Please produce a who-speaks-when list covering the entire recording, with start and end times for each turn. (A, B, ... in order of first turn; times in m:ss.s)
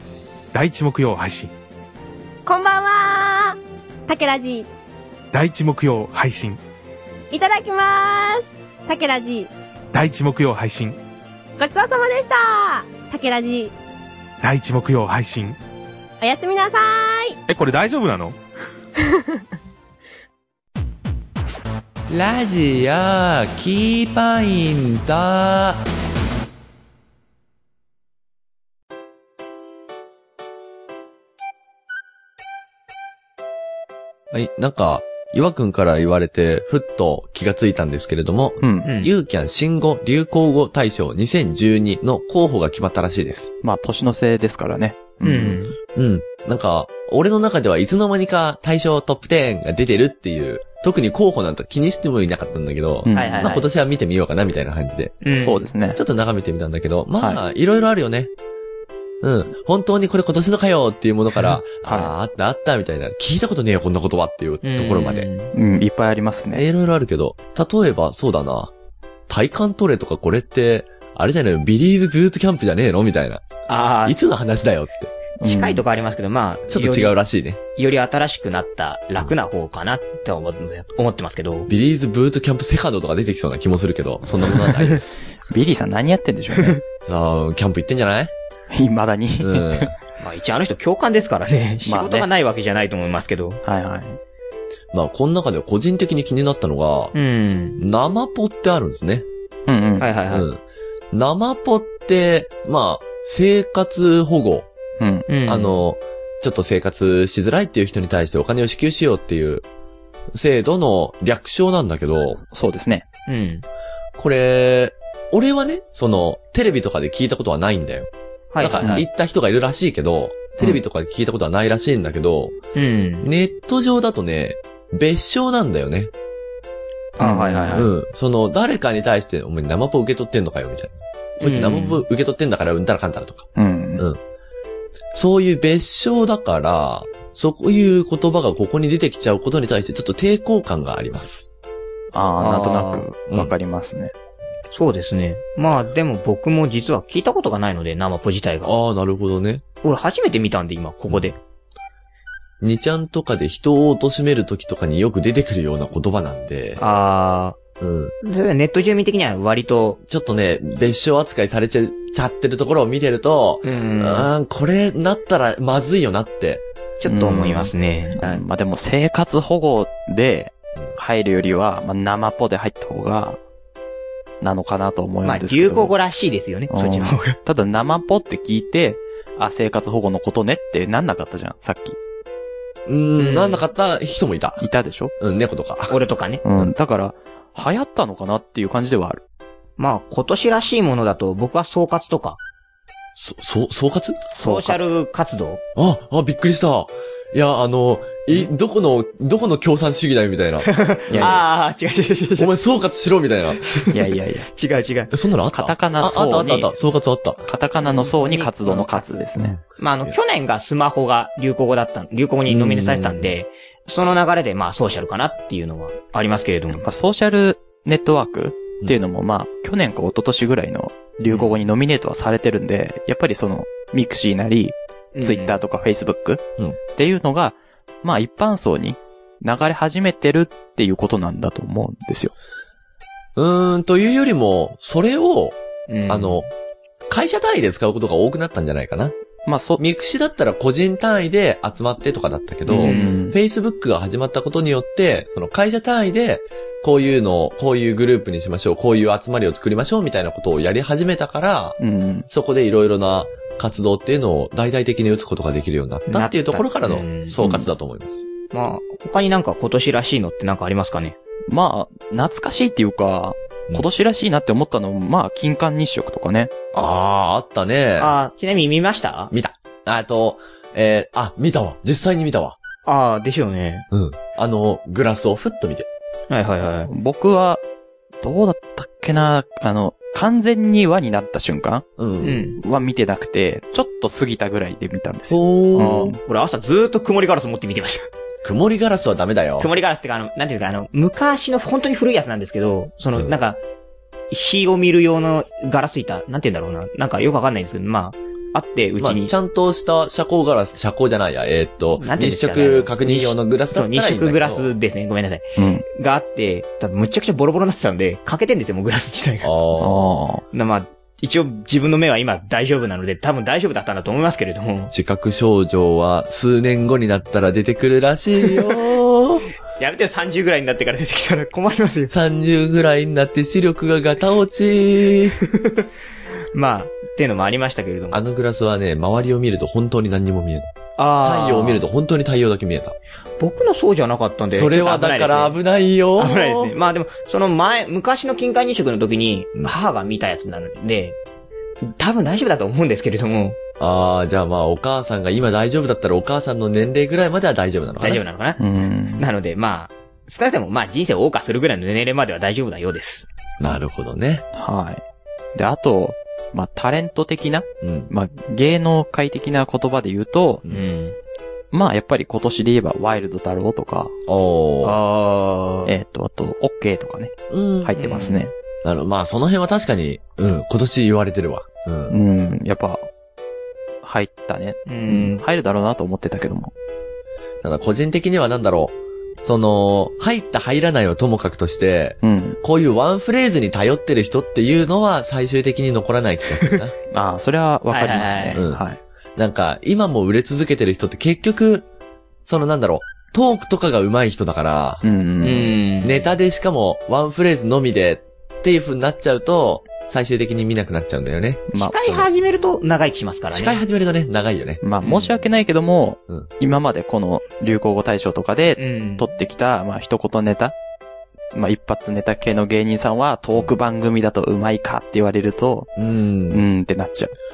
0:00.5-0:01.5 A
0:02.4-0:04.7 B
0:05.3-0:06.6 A
0:07.3-0:09.5 B
0:09.9-0:11.0 A
0:11.6-0:13.7 B
0:14.4-0:15.6 A
0:16.2-0:17.4 B
0:17.5-0:18.4 A
0:19.0-0:19.4 B
0:22.1-0:25.8 C
0:34.3-0:43.5 C
0:38.6-0:38.9 D
0:38.8-0:39.1 E
0:43.6-0:45.6 D
0:45.2-0:45.8 E
0:45.9-0:55.2 C
0:53.0-0:53.6 D
0:53.1-0:53.6 E
0:55.2-0:55.7 E
0:55.4-0:56.0 D
0:55.9-0:58.3 C
0:59.2-1:05.3 C
1:01.8-1:02.1 D
1:04.6-1:05.5 E
1:05.5-1:06.6 D
1:06.5-1:08.7 C
1:09.3-1:13.4 C
1:13.7-1:14.2 E
1:14.0-1:15.1 C
1:15.4-1:15.8 D
1:15.4-1:17.1 E
1:16.7-1:17.6 C
1:17.8-1:21.7 E
1:21.7-1:25.2 C
1:25.5-1:26.8 D
1:27.0-1:28.3 C
1:28.7-1:29.9 D
1:29.4-1:29.9 C
1:30.2-1:33.6 E
1:31.8-1:32.3 D
1:33.6-1:34.2 D
1:34.9-1:37.1 C
1:37.1-1:37.8 E
1:37.8-1:39.2 C
1:39.7-1:40.1 D
1:40.0-1:40.5 E
1:40.3-1:40.6 C
1:41.1-1:44.7 C
1:45.0-1:45.2 D
1:45.3-1:45.7 E
1:45.4-1:49.6 C
1:50.3-1:52.4 C
1:52.5-1:53.0 D
1:53.3-1:53.6 E
1:54.2-2:02.5 C
1:58.5-1:59.0 E
1:58.8-1:59.0 D
2:02.7-2:03.3 E
2:03.2-2:06.1 C
2:07.2-2:07.9 E
2:07.2-2:07.9 D
2:07.7-2:13.5 C
2:11.4-2:12.0 E
2:13.6-2:14.1 D
2:15.1-2:21.5 C
2:22.1-2:24.1 D
2:22.4-2:23.0 E
2:24.7-2:28.7 E
2:28.6-2:29.6 C
2:29.8-2:31.4 E
2:32.6-2:36.8 C
2:36.8-2:37.6 E
2:37.8-2:38.1 C
2:38.2-2:40.0 E
2:40.0-2:46.6 C
2:43.6-2:44.3 E
2:47.0-2:48.4 E
2:47.0-2:53.4 D
2:54.4-2:55.9 D
2:55.2-2:57.4 E
2:56.7-3:02.0 D
3:02.9-3:04.6 C
3:03.2-3:03.6 E
3:04.6-3:05.1 D
3:05.2-3:06.0 C
3:05.9-3:06.4 E
3:06.4-3:09.2 D
3:09.8-3:12.4 E
3:13.1-3:14.3 C
3:14.3-3:14.9 D
3:14.4-3:15.6 E
3:15.8-3:21.4 C
3:20.6-3:22.5 E
3:21.1-3:21.4 D
3:22.4-3:23.6 C
3:23.6-3:25.1 E
3:23.9-3:24.5 D
3:25.1-3:27.5 C
3:25.5-3:26.7 D
3:27.5-3:29.6 D
3:27.8-3:29.2 E
3:29.4-3:29.6 C
3:29.8-3:36.8 E
3:32.4-3:33.3 C
3:36.8-3:46.4 D
3:41.3-3:41.5 E
3:45.1-3:45.6 E
3:46.9-3:52.3 D
3:53.4-3:55.6 C
3:55.9-3:56.5 E
3:56.1-3:56.4 C
3:57.1-3:59.1 C
3:59.4-3:59.8 D
3:59.8-4:11.8 C
4:02.7-4:03.4 D
4:02.8-4:03.2 E
4:11.8-4:12.3 D
4:12.3-4:18.3 C
4:16.1-4:17.4 E
4:17.4-4:17.7 D
4:18.5-4:21.2 E
4:21.5-4:26.5 D
4:26.7-4:28.1 C
4:28.0-4:29.3 E
4:29.3-4:32.6 C
4:32.8-4:33.9 E
4:33.9-4:35.9 C
4:36.3-4:36.9 E
4:36.9-4:37.6 D
4:38.2-4:41.8 D
4:42.0-4:42.5 C
4:42.2-4:42.6 E
4:42.6-4:46.2 D
4:45.3-4:46.2 C
4:46.2-4:48.1 E
4:48.4-4:49.7 C
4:49.6-4:53.6 E
4:54.3-4:59.3 E
4:59.0-5:04.7 C
5:02.0-5:09.5 E
5:05.6-5:05.8 D
5:09.4-5:10.0 C
5:09.8-5:10.4 D
5:10.5-5:14.9 E
5:14.9-5:19.5 C
5:19.8-5:22.1 E
5:22.1-5:25.4 C
5:25.6-5:25.9 E
5:26.5-5:28.2 E
5:28.1-5:30.7 C
5:31.0-5:31.8 E
5:31.2-5:33.0 C
5:33.4-5:35.6 E
5:34.5-5:36.7 C
5:36.2-5:41.2 E
5:41.8-5:43.6 E
5:43.8-5:48.2 C
5:48.0-5:48.6 E
5:48.6-5:49.2 D
5:49.2-5:53.3 E
5:53.6-5:54.4 C
5:54.5-5:55.0 D
5:55.5-6:00.6 D
5:57.8-5:58.1 C
6:00.7-6:01.2 E
6:01.7-6:04.1 D
6:04.3-6:05.0 C
6:04.8-6:05.9 E
6:05.8-6:08.5 D
6:07.5-6:08.0 C
6:08.0-6:08.4 E
6:08.8-6:12.2 C
6:12.1-6:13.1 D
6:14.0-6:16.7 D
6:14.9-6:15.4 E
6:17.6-6:26.9 C
6:22.2-6:22.6 D
6:27.1-6:29.0 D
6:27.9-6:28.6 E
6:28.6-6:28.8 C
6:29.4-6:31.8 C
6:32.4-6:35.0 C
6:35.0-6:35.8 D
6:35.4-6:36.3 E
6:36.0-6:42.2 C
6:41.7-6:42.0 D
6:41.7-6:43.8 E
6:43.5-6:44.8 C
6:44.8-6:50.7 D
6:45.0-6:45.3 E
6:48.8-6:49.3 E
6:51.5-6:55.9 D
6:56.0-6:56.6 C
6:56.5-6:57.3 D